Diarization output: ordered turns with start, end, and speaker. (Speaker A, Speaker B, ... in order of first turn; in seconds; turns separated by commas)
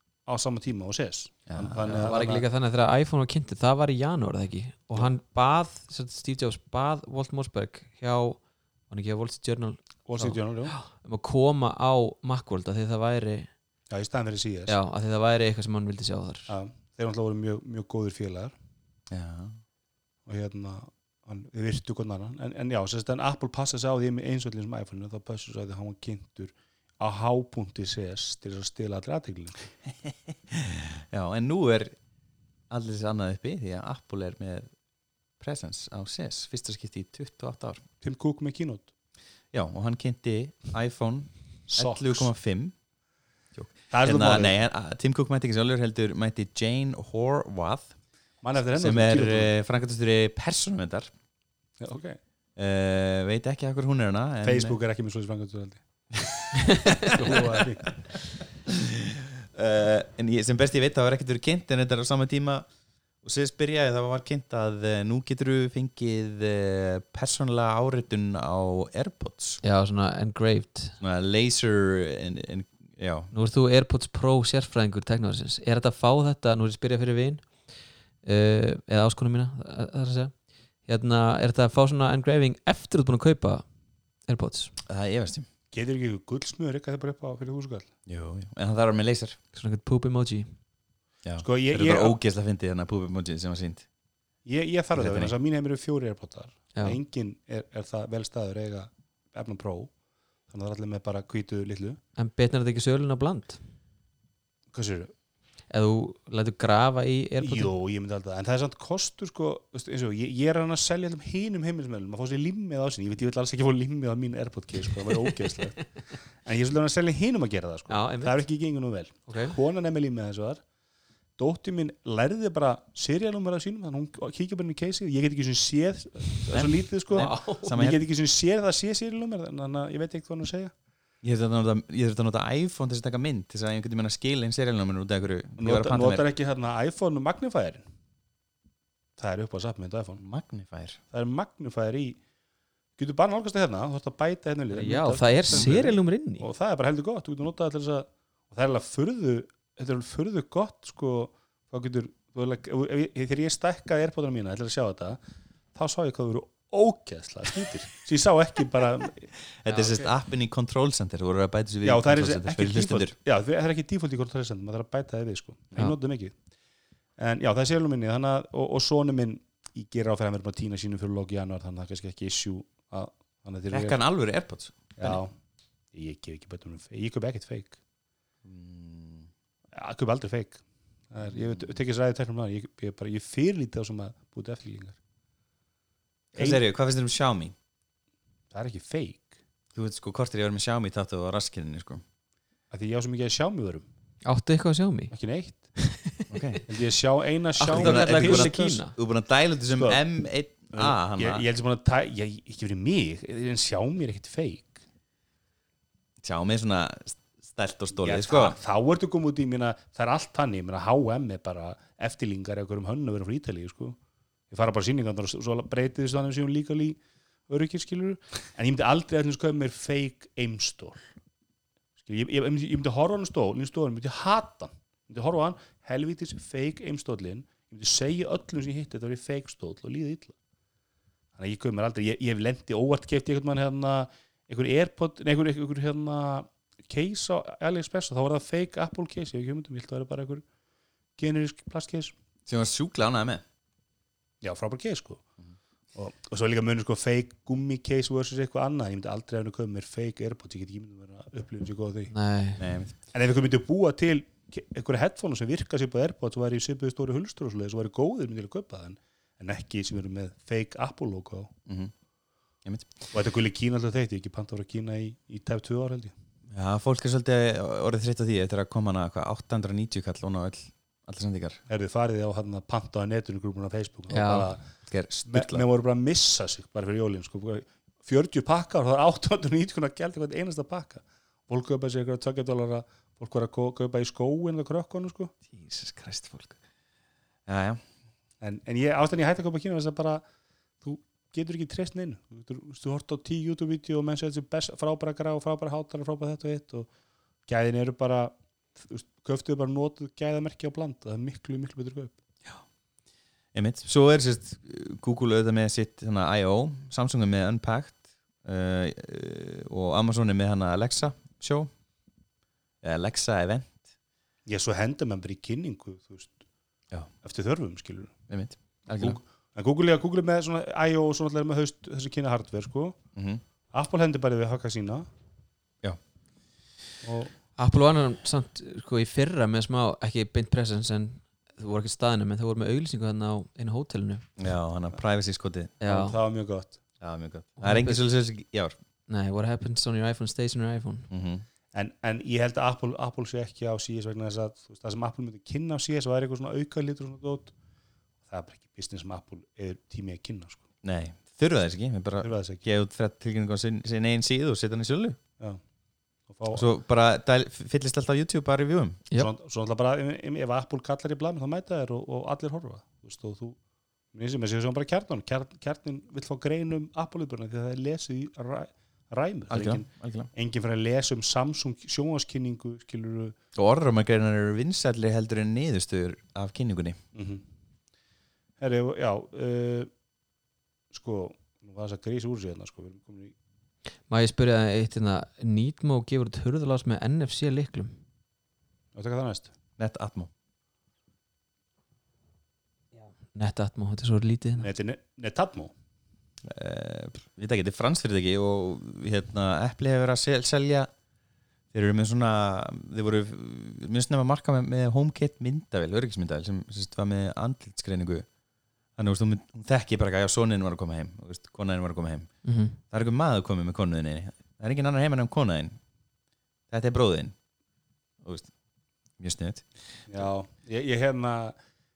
Speaker A: 0.2-2.4, Speaker B: 1.5-2.1, Speaker C: 1.9-13.5, Speaker A: 10.1-10.7, Speaker A: 13.9-14.8, Speaker C: 14.7-16.5, Speaker A: 16.5-18.5, Speaker B: 19.1-19.6, Speaker A: 20.2-29.6, Speaker B: 30.0-31.9, Speaker B: 32.7-34.7, Speaker B: 35.4-37.8, Speaker A: 38.0-38.9, Speaker B: 39.5-42.7, Speaker A: 41.7-42.3, Speaker B: 43.5-47.9, Speaker A: 43.9-44.5, Speaker A: 48.4-49.5, Speaker B: 48.7-51.1, Speaker A: 51.8-52.2, Speaker B: 52.5-54.8, Speaker A: 54.4-55.8, Speaker A: 56.3-58.0, Speaker C: 56.6-57.1, Speaker B: 57.1-57.4, Speaker B: 58.7-62.6, Speaker B: 63.2-69.6, Speaker C: 69.6-71.0, Speaker B: 71.0-73.3, Speaker C: 73.3-77.5, Speaker C: 78.2-80.3, Speaker C: 80.8-83.6, Speaker C: 84.3-84.7, Speaker B: 84.8-85.5, Speaker A: 85.7-87.9, Speaker B: 88.1-89.4, Speaker C: 89.5-90.5, Speaker B: 91.2-93.8, Speaker A: 91.4-92.2, Speaker A: 94.5-99.9, Speaker B: 94.9-95.3, Speaker A: 100.5-102.0, Speaker C: 102.2-103.6, Speaker A: 104.7-105.1, Speaker C: 105.7-107.7, Speaker A: 107.4-115.9, Speaker A: 116.4-120.6, Speaker C: 117.9-118.4, Speaker C: 119.3-119.5, Speaker A: 121.4-130.7, Speaker B: 126.5-128.0, Speaker C: 127.1-127.7, Speaker B: 131.2-136.2, Speaker A: 135.6-137.8, Speaker A: 139.2-140.2, Speaker B: 140.2-141.0, Speaker A: 141.1-142.2, Speaker A: 143.0-155.2, Speaker C: 144.7-146.5, Speaker A: 155.7-159.3, Speaker B: 159.6-163.1, Speaker C: 159.7-160.1, Speaker A: 161.8-166.3, Speaker A: 167.2-174.0, Speaker B: 173.7-175.2, Speaker A: 175.0-175.3, Speaker A: 175.9-177.8, Speaker B: 178.4-179.3, Speaker A: 179.7-185.0, Speaker A: 186.3-186.6, Speaker B: 186.3-187.5, Speaker A: 188.5-189.3, Speaker B: 189.7-192.0, Speaker A: 192.7-193.9, Speaker C: 194.2-195.1, Speaker A: 195.1-195.6, Speaker C: 195.8-196.6, Speaker B: 196.3-196.6, Speaker A: 196.7-198.8, Speaker C: 197.6-198.9, Speaker B: 197.6-201.4, Speaker A: 199.7-200.0, Speaker A: 200.7-204.8, Speaker B: 206.2-208.6, Speaker A: 208.0-214.0, Speaker A: 214.5-221.0, Speaker A: 222.0-230.3, Speaker A: 231.3-240.4, Speaker A: 241.2-242.1, Speaker B: 242.5-243.4, Speaker A: 244.4-245.2, Speaker A: 245.9-252.1, Speaker C: 252.1-252.7, Speaker B: 252.6-252.9, Speaker A: 253.1-261.5, Speaker B: 261.6-261.9, Speaker B: 262.6-263.1, Speaker A: 263.1-266.1, Speaker B: 266.5-271.6, Speaker A: 271.7-274.6, Speaker C: 274.1-274.5, Speaker B: 274.9-275.6, Speaker A: 275.3-285.3, Speaker B: 285.5-286.6, Speaker B: 287.4-287.8, Speaker A: 288.4-290.2, Speaker A: 290.8-296.9, Speaker A: 297.5-302.1, Speaker B: 303.5-311.7, Speaker B: 312.8-313.8, Speaker A: 314.4-316.4, Speaker A: 317.2-318.1, Speaker B: 318.3-319.2, Speaker A: 318.9-323.0, Speaker B: 323.1-323.4, Speaker A: 323.7-325.1, Speaker A: 327.0-327.3, Speaker C: 327.6-334.2, Speaker B: 334.4-335.7, Speaker C: 335.8-336.1, Speaker A: 335.8-336.8, Speaker B: 337.0-338.8, Speaker C: 337.6-338.0, Speaker C: 339.1-341.1, Speaker B: 341.1-341.4, Speaker A: 341.7-347.5, Speaker A: 348.3-350.6, Speaker B: 350.8-355.2, Speaker A: 352.2-352.6, Speaker A: 356.3-356.7, Speaker B: 356.5-359.0, Speaker A: 359.1-363.6, Speaker A: 364.1-373.3, Speaker B: 369.5-370.3, Speaker B: 373.5-377.0, Speaker A: 377.1-377.4, Speaker A: 378.6-379.9, Speaker A: 380.9-383.3, Speaker C: 384.1-388.0, Speaker A: 388.9-389.5, Speaker B: 389.8-390.3, Speaker C: 393.2-394.7, Speaker A: 394.6-395.7, Speaker B: 396.4-400.9, Speaker B: 401.7-408.3, Speaker B: 409.0-412.3, Speaker C: 412.4-412.8, Speaker B: 412.9-415.8, Speaker B: 416.7-417.3, Speaker B: 418.2-418.5, Speaker B: 419.2-419.7, Speaker A: 420.1-421.6